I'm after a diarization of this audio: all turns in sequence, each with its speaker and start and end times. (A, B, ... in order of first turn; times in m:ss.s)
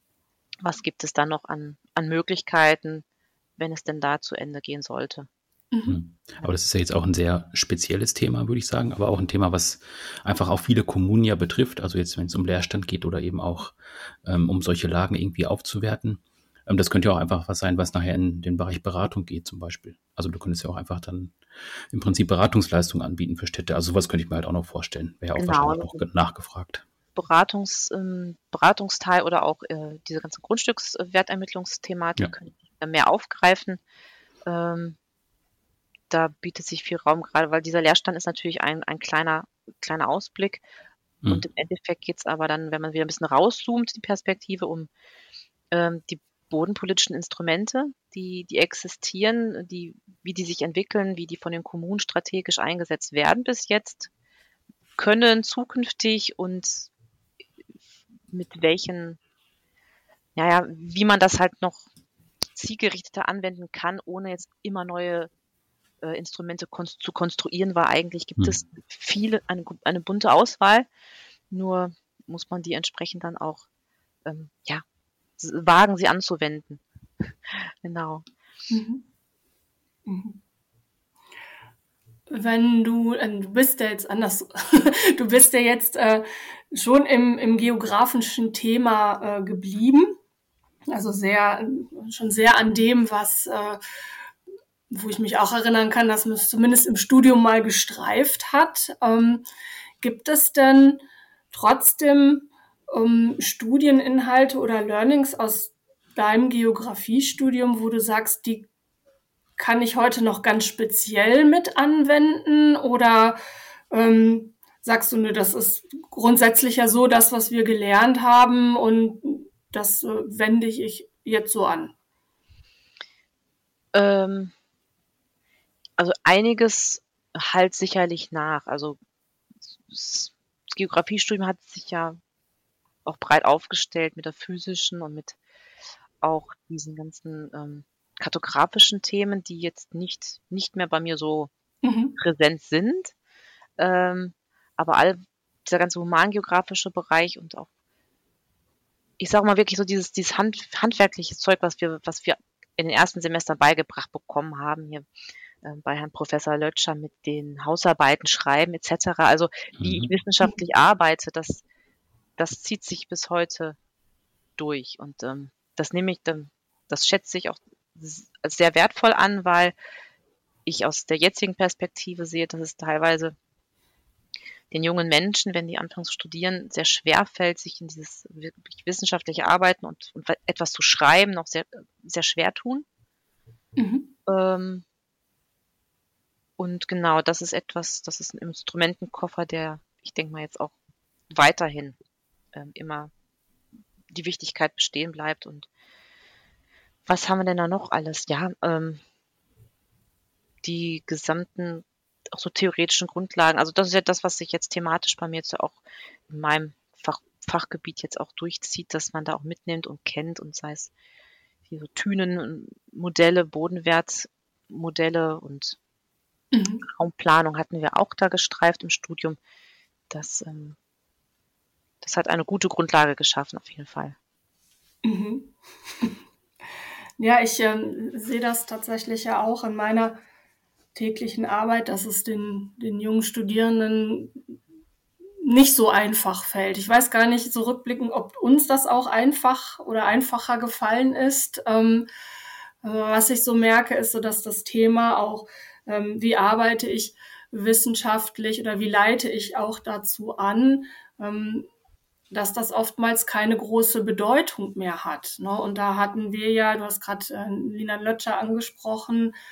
0:00.6-0:03.0 A
0:03.6-0:05.3 A
0:05.7-0:06.0 B
0:05.9-0:21.4 C
0:21.9-0:26.8 C
0:25.4-0:26.1 A
0:27.2-0:33.8 A
0:34.4-0:35.0 A
0:36.1-0:40.6 A
0:41.3-0:44.9 A
0:45.7-0:54.1 A
0:55.0-0:56.9 A
0:58.3-0:59.2 A
1:00.4-1:01.9 A
1:02.5-1:05.3 A
1:06.0-1:10.9 A
1:11.5-1:13.6 A
1:14.2-1:14.8 A
1:15.4-1:16.8 A
1:17.5-1:18.2 A
1:18.7-1:19.0 B
1:20.0-1:20.4 B
1:22.3-1:30.2 B
1:30.9-1:33.8 B
1:34.9-1:39.4 B
1:40.0-1:48.7 B
1:49.6-1:53.4 B
1:53.9-2:01.9 B
2:03.9-2:04.5 A
2:06.0-2:09.0 A
2:09.8-2:12.2 A
2:13.0-2:15.4 A
2:16.2-2:21.5 A
2:21.8-2:22.1 B
2:22.2-2:23.1 A
2:23.8-2:27.7 A
2:29.2-2:35.0 A
2:35.6-2:41.6 A
2:39.8-2:40.1 C
2:42.4-2:43.8 A
2:44.6-2:49.7 A
2:50.6-2:53.3 A
2:54.7-3:02.8 A
3:03.8-3:04.1 B
3:04.3-3:04.8 A
3:06.6-3:10.8 A
3:11.3-3:12.0 A
3:12.5-3:13.1 A
3:14.1-3:15.7 A
3:17.0-3:19.0 A
3:20.6-3:30.9 A
3:31.7-3:35.8 A
3:36.5-3:36.8 B
3:36.8-3:39.4 A
3:40.1-3:40.8 A
3:42.0-3:44.2 A
3:45.0-3:46.2 B
3:47.2-3:50.2 B
3:50.9-3:54.6 B
3:55.4-4:02.1 B
4:02.8-4:11.7 B
4:12.3-4:19.3 B